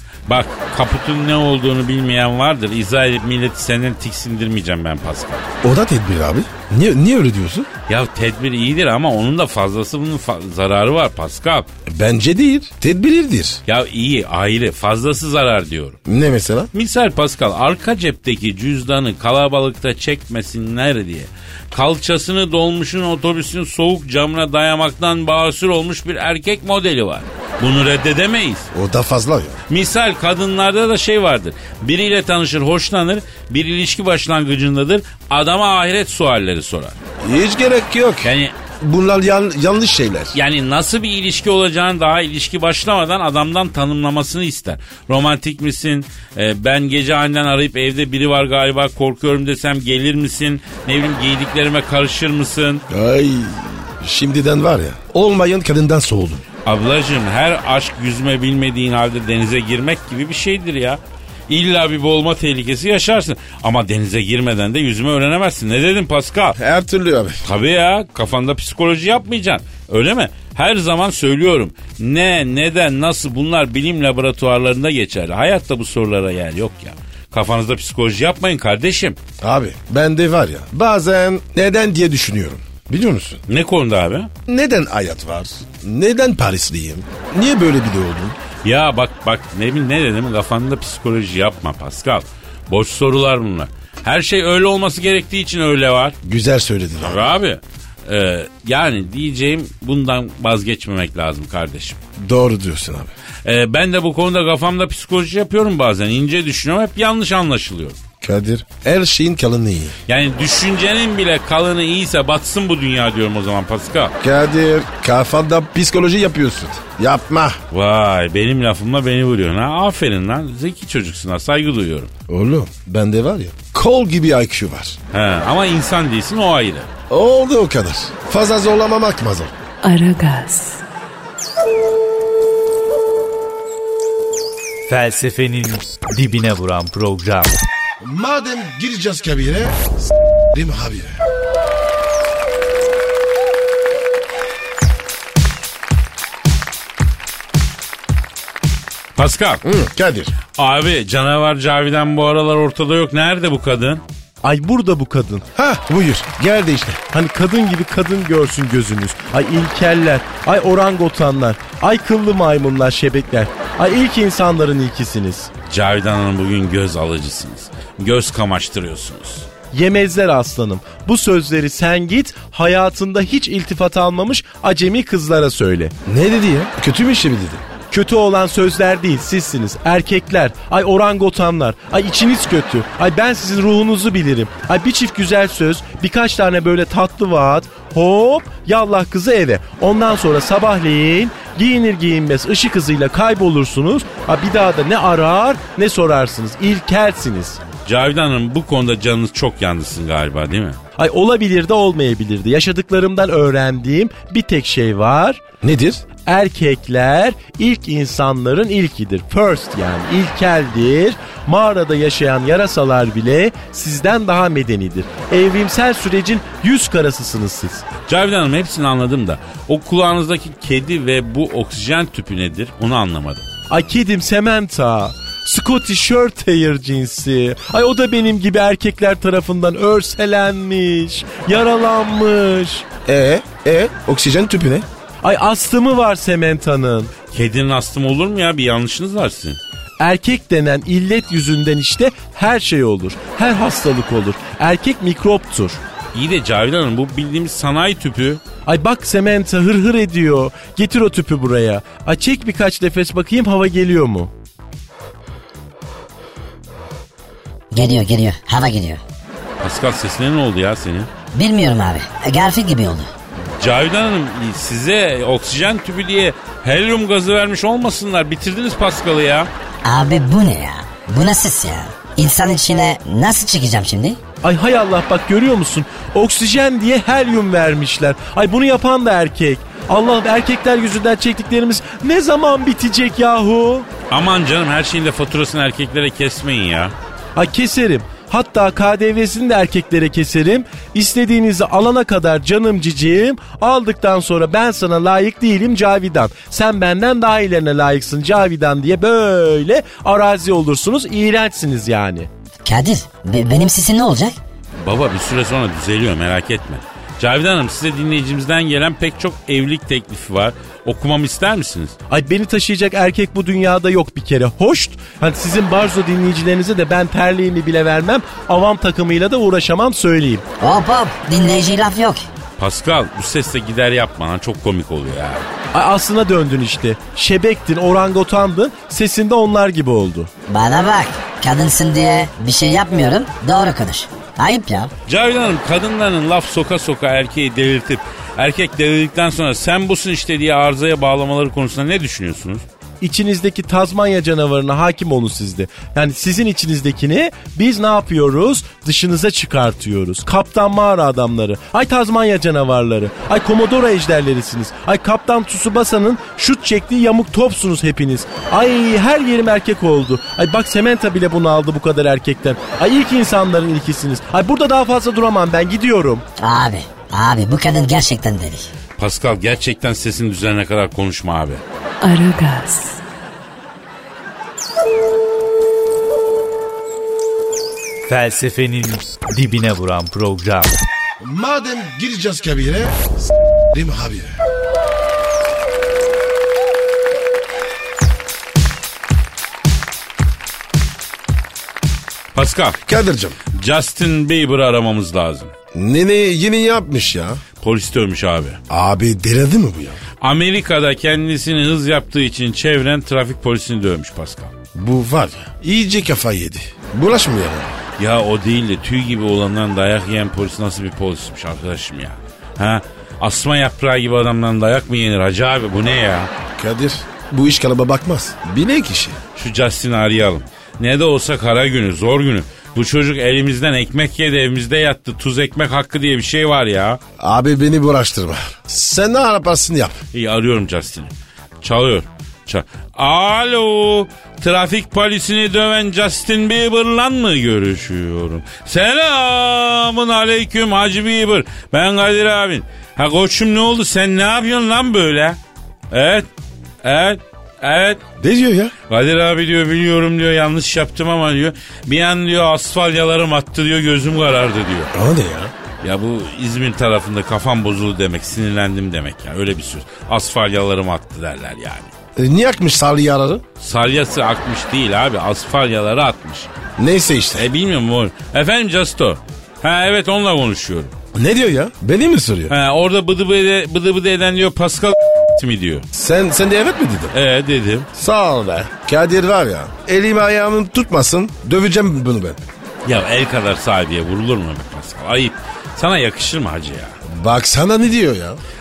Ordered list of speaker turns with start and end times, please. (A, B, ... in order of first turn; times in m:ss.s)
0:00.3-0:05.4 A
0:05.6-0:07.7 B
0:07.9-0:11.7 A
0:11.9-0:13.6 B
0:13.7-0:16.0 A
0:16.1-0:16.7 B
0:16.7-0:28.7 A
0:28.7-0:29.6 B
0:29.7-0:37.0 A
0:37.2-0:40.4 B
0:38.2-0:38.5 A
0:40.3-0:52.8 A
0:52.9-0:56.4 B
0:56.6-1:06.6 A
1:06.6-1:07.4 B
1:07.4-1:19.2 A
1:19.4-1:23.4 B
1:23.5-1:24.3 A
1:24.5-1:28.4 B
1:28.6-1:36.2 A
1:36.2-1:37.3 B
1:37.0-1:42.0 A
1:42.2-1:43.1 B
1:43.4-1:48.0 A
1:48.2-1:50.0 B
1:50.1-1:54.1 A
1:54.2-1:57.6 B
1:57.7-2:02.1 A
2:02.3-2:05.0 B
2:05.1-2:06.9 A
2:07.1-2:09.5 B
2:09.8-2:10.8 C
2:14.9-2:17.5 D
2:18.0-2:19.9 B
2:20.5-2:21.2 B
2:29.2-2:29.6 A
2:29.6-2:30.4 B
2:30.6-2:34.0 A
2:34.4-2:35.5 E
2:35.6-2:37.0 B
2:37.1-2:45.5 E
2:45.7-2:49.5 A
2:49.7-2:55.9 E
2:56.1-2:57.6 B
2:57.9-3:17.6 E
3:17.9-3:20.8 A
3:21.0-3:25.4 E
3:25.6-3:26.0 B
3:26.3-3:37.8 E
3:38.1-3:43.4 A
3:43.7-3:52.9 E
3:53.1-3:54.9 B
3:55.2-3:57.1 E
3:57.3-3:59.6 A
4:00.0-4:05.8 E
4:06.1-4:08.4 A
4:08.7-4:14.3 E
4:17.7-4:19.0 F
4:19.6-4:21.1 A
4:21.3-4:23.1 F
4:23.6-4:29.5 A
4:29.8-4:34.2 F
4:34.4-4:43.9 E
4:44.1-4:46.9 A
4:47.4-5:02.3 E
5:02.6-5:04.4 F
5:04.8-5:12.0 A
5:12.1-5:20.4 E
5:20.6-5:22.3 F
5:22.6-5:25.4 A
5:25.7-5:30.3 E
5:30.5-5:34.9 F
5:35.1-5:42.6 A
5:43.0-6:06.2 E
6:06.4-6:08.7 F
6:09.0-6:11.6 A
6:12.0-6:13.0 C
6:18.1-6:20.7 D
6:21.2-6:23.1 B
6:23.7-6:24.4 B
6:32.3-6:32.8 A
6:32.9-6:33.4 B
6:33.5-6:35.5 A
6:35.7-6:37.4 B
6:37.6-6:38.6 A
6:38.7-6:40.0 B
6:40.2-6:44.5 A
6:44.8-6:47.7 B
6:48.0-6:56.3 A
6:56.6-6:59.2 B
6:59.4-7:07.0 A
7:07.2-7:10.0 B
7:10.1-7:25.4 A
7:25.9-7:26.3 A
7:26.8-7:28.0 A
7:28.2-7:28.7 B
7:28.9-7:34.9 A
7:34.9-7:35.5 B
7:35.8-7:41.9 A
7:42.2-7:43.4 B
7:43.6-7:46.5 A
7:46.8-7:47.5 B
7:47.4-7:50.9 A
7:51.1-7:52.5 B
7:52.5-7:55.9 A
7:55.9-7:57.1 B
7:57.1-7:57.9 A
7:58.0-8:02.4 B
8:02.8-8:07.0 A
8:07.1-8:08.4 B